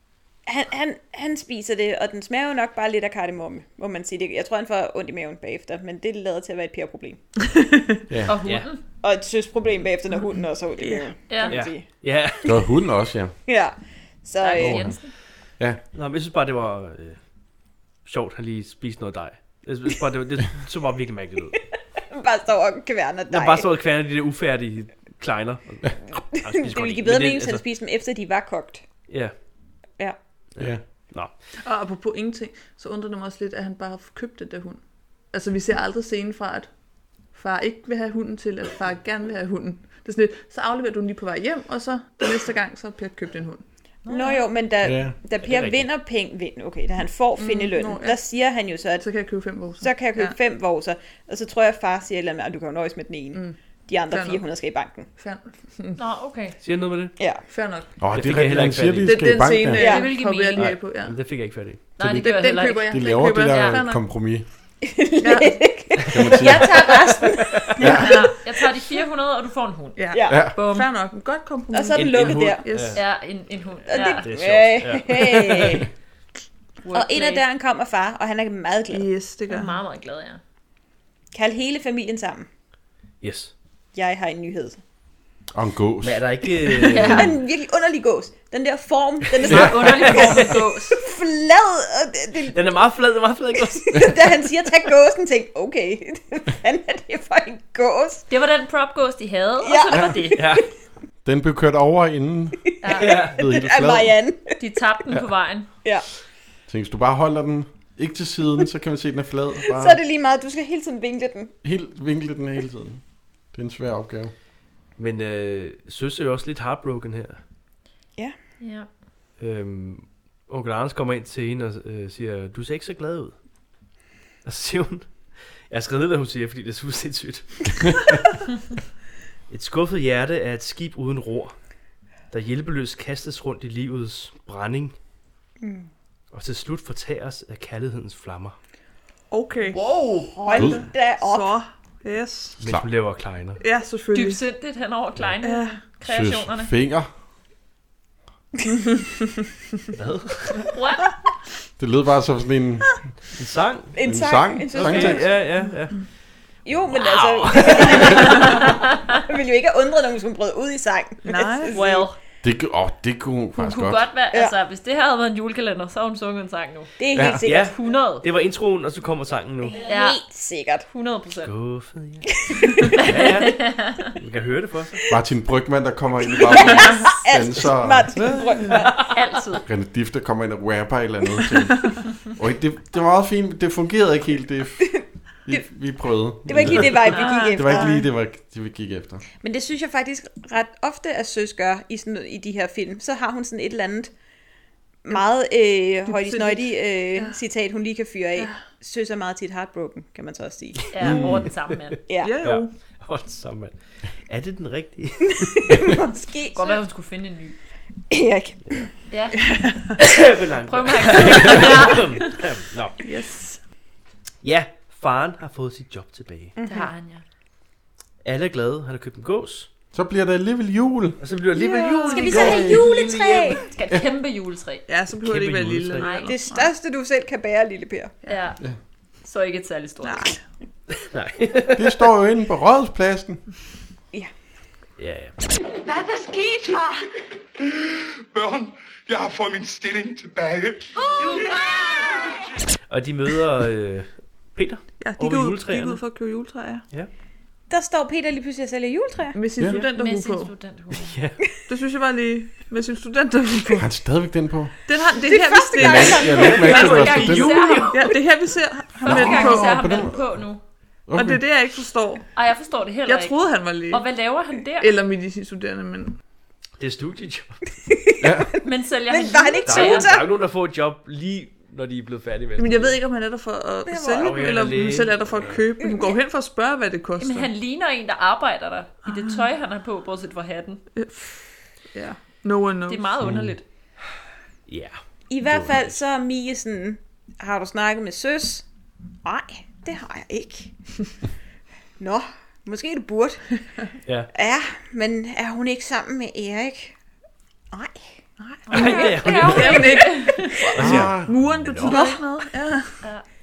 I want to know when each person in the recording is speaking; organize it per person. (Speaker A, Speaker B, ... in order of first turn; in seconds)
Speaker A: 0.5-7.2, 9.0-11.9, 13.5-14.9, 22.1-23.7, 26.4-28.8, 44.1-49.1, 49.8-55.1, 57.2-57.4, 59.8-60.1, 64.8-68.2, 70.1-70.5, 71.7-72.6, 73.9-75.9, 76.9-79.1, 81.3-82.5, 83.9-84.8, 87.0-92.8, 93.5-98.2, 99.6-100.6, 102.9-104.6, 109.7-111.5, 135.6-135.9, 140.3-141.6, 153.9-155.3, 156.7-162.1, 167.0-167.8, 169.7-170.9, 172.4-173.0, 176.3-179.1, 186.5-188.0, 189.4-194.1, 195.1-201.2, 202.1-202.4, 205.4-206.8, 208.1-208.9, 216.6-216.9, 222.1-223.6, 226.3-228.2, 247.7-249.4, 255.3-256.8, 267.9-268.6, 269.1-270.3, 273.9-274.7, 275.8-276.1, 285.3-288.6, 289.2-290.7, 292.0-293.5, 294.3-296.9, 297.7-298.1, 301.9-302.3
Speaker B: 7.5-8.0, 10.8-11.1, 31.6-36.7, 37.3-43.6, 47.4-48.2, 49.0-50.4, 53.3-53.6, 54.1-54.5, 55.2-56.0, 57.5-57.9, 59.0-61.2, 62.0-64.0, 65.2-65.6, 70.0-73.0, 78.9-79.8, 139.3-139.8, 140.4-142.6, 143.6-144.4, 145.4-145.8, 161.2-161.7, 187.1-188.0, 196.1-197.4, 198.4-198.7, 202.2-202.7, 209.4-209.9, 213.0-213.6, 221.5-222.8, 224.9-226.7, 230.0-230.4, 245.0-246.8, 249.3-250.5, 251.7-253.9, 254.9-256.4, 257.9-259.8, 261.1-262.3, 263.1-264.1, 264.8-266.2, 272.6-277.5, 279.1-279.4, 281.0-283.1, 298.4-303.0
Speaker C: 8.3-8.8, 11.3-11.6, 14.4-15.1, 44.0-44.4, 56.0-56.6, 59.8-60.7, 62.0-63.9, 68.0-70.9, 72.9-74.3, 76.8-77.4, 79.5-80.4, 86.9-87.3, 89.5-91.0, 98.3-100.4, 102.8-103.2, 104.6-105.7, 118.6-118.9, 139.7-140.3, 144.1-146.7, 150.7-151.1, 161.7-162.2, 163.6-166.9, 167.5-168.3, 169.8-170.2, 170.9-171.5, 173.0-174.1, 179.1-179.7, 200.9-202.0, 206.5-207.6, 209.1-209.4, 210.7-212.2, 216.7-217.2, 222.3-222.8, 223.6-224.9, 226.0-226.3, 228.3-228.6, 229.2-230.4, 249.8-251.2, 256.1-258.1, 259.0-260.6, 262.4-264.9, 268.6-270.2, 277.2-280.8, 282.9-283.6, 298.7-300.6
Speaker D: 11.5-12.5, 15.9-17.2, 18.1-21.6, 23.3-27.6, 30.6-31.3, 45.4-45.9, 56.6-57.1, 58.1-59.4, 60.6-61.8, 72.0-73.0, 74.2-75.9, 83.2-83.5, 86.0-87.4, 89.5-90.6, 92.5-94.1, 100.4-100.6, 103.0-103.4, 115.0-117.4, 119.4-123.3, 124.4-125.1, 125.7-128.2, 129.5-131.6, 132.3-135.0, 136.3-138.6, 142.6-143.6, 150.0-150.7, 153.4-153.9, 154.7-156.0, 156.9-158.4, 167.4-169.8, 171.5-172.3, 173.0-175.0, 202.4-203.7, 204.3-205.9, 210.0-213.0, 214.4-216.6, 218.2-219.7, 221.2-223.6, 225.2-226.2, 231.0-232.1, 235.0-235.3, 242.9-246.0, 250.9-251.4, 256.4-258.1, 266.8-267.6, 269.6-273.0, 274.2-275.6, 284.7-286.0, 298.7-299.9, 300.8-301.9
Speaker E: 12.4-13.3, 14.6-15.0, 44.8-45.1, 58.0-59.9, 62.9-64.5, 66.1-66.9, 67.8-68.2, 70.3-70.5, 85.5-86.3, 89.5-89.9, 99.9-100.2, 101.2-102.7, 103.2-104.2, 106.7-110.0, 111.6-113.0, 113.5-114.3, 142.6-142.9, 146.1-147.1, 151.8-153.0, 154.0-155.3, 162.4-164.1, 167.1-167.4, 175.1-178.7, 179.7-189.2, 201.0-201.5, 219.9-221.2, 231.8-233.4, 253.8-254.7, 255.8-257.6, 259.1-260.4, 261.1-261.4, 268.2-268.5, 283.2-283.6, 300.8-301.7
Speaker F: 235.8-237.0, 241.0-241.9
Speaker G: 238.3-240.8